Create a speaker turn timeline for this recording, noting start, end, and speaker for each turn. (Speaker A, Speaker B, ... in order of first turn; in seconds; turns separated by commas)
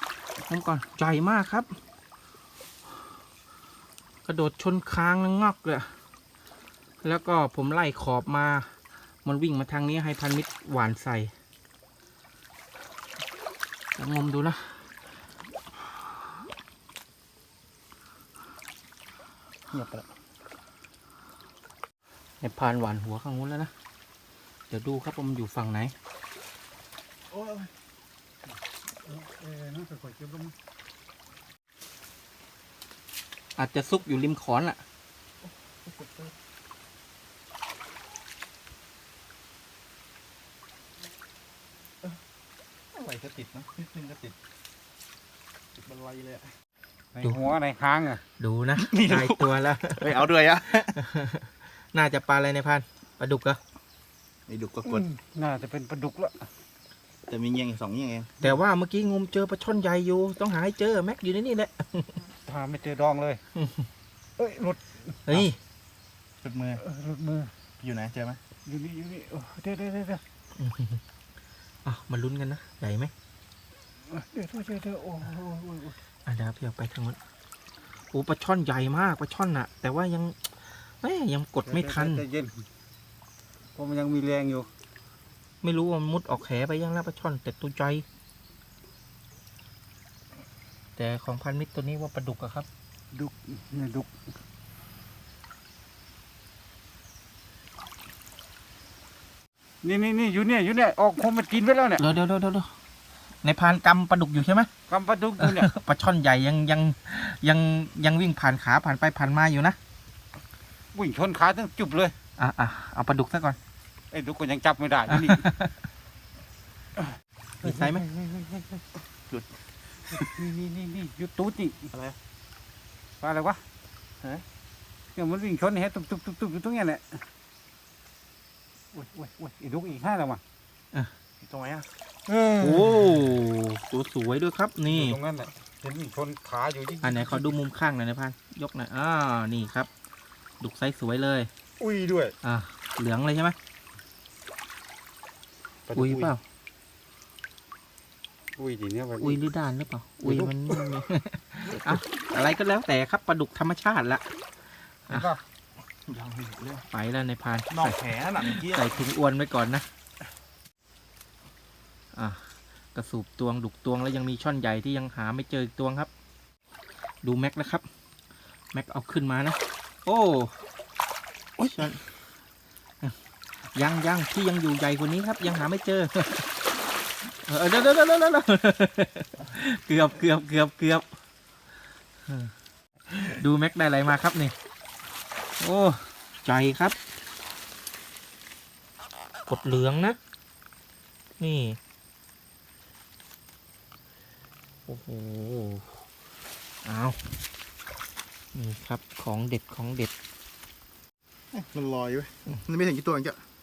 Speaker A: 0.5-1.7, Speaker A: 4.2-5.9, Speaker A: 7.0-8.7, Speaker A: 9.2-11.3, Speaker A: 14.0-14.9, Speaker A: 19.7-20.0, Speaker A: 22.4-23.7, Speaker A: 24.7-25.9, Speaker B: 27.3-27.7, Speaker C: 29.1-30.5, Speaker A: 33.6-34.8, Speaker B: 35.8-36.3, Speaker B: 42.9-44.4, Speaker B: 45.8-46.5, Speaker C: 47.1-48.2, Speaker A: 48.4-50.1, Speaker B: 48.8-51.0, Speaker A: 51.0-53.6, Speaker B: 54.5-55.1, Speaker C: 54.9-56.5, Speaker B: 57.3-58.3, Speaker A: 58.4-62.1, Speaker C: 62.5-63.4, Speaker A: 63.5-63.9, Speaker C: 64.4-65.3, Speaker A: 65.3-65.6, Speaker B: 66.4-66.8, Speaker C: 66.8-67.5, Speaker B: 67.8-68.4, Speaker C: 68.7-70.2, Speaker A: 70.6-71.0, Speaker A: 71.8-73.1, Speaker C: 74.1-76.0, Speaker A: 76.3-77.2, Speaker A: 78.1-80.4, Speaker A: 81.0-82.2, Speaker C: 81.7-82.6, Speaker C: 83.8-84.7, Speaker A: 85.6-88.0, Speaker A: 91.0-92.7, Speaker C: 93.1-94.1, Speaker C: 99.8-102.0, Speaker A: 102.0-102.7, Speaker A: 103.4-104.7, Speaker C: 104.9-105.7, Speaker A: 105.4-109.8, Speaker C: 110.9-112.2, Speaker A: 112.4-113.6, Speaker C: 114.1-115.5, Speaker A: 115.1-115.7, Speaker A: 117.6-118.1, Speaker C: 117.6-118.8, Speaker C: 120.1-121.9, Speaker B: 121.9-122.2, Speaker C: 123.2-123.6, Speaker C: 125.2-127.2, Speaker C: 128.9-130.4, Speaker B: 131.4-131.9, Speaker C: 132.3-133.2, Speaker A: 132.6-135.2, Speaker C: 134.9-137.4, Speaker A: 137.0-139.9, Speaker A: 140.6-141.5, Speaker C: 141.8-142.3, Speaker A: 142.4-143.6, Speaker C: 145.9-146.3, Speaker A: 145.9-146.4, Speaker C: 148.6-149.4, Speaker A: 149.2-154.2, Speaker C: 150.2-150.8, Speaker B: 151.7-152.0, Speaker C: 155.1-155.4, Speaker B: 156.1-156.9, Speaker A: 156.9-159.9, Speaker B: 157.7-158.9, Speaker A: 162.1-162.4, Speaker A: 162.9-166.1, Speaker A: 167.2-167.9, Speaker A: 168.7-170.6, Speaker A: 171.6-172.0, Speaker A: 173.7-176.5, Speaker A: 177.4-181.1, Speaker A: 182.3-182.5, Speaker A: 183.1-184.6, Speaker A: 185.6-187.0, Speaker A: 189.5-190.2, Speaker A: 191.4-191.8, Speaker A: 194.9-195.9, Speaker A: 196.8-197.2, Speaker A: 198.5-200.1, Speaker B: 201.5-203.4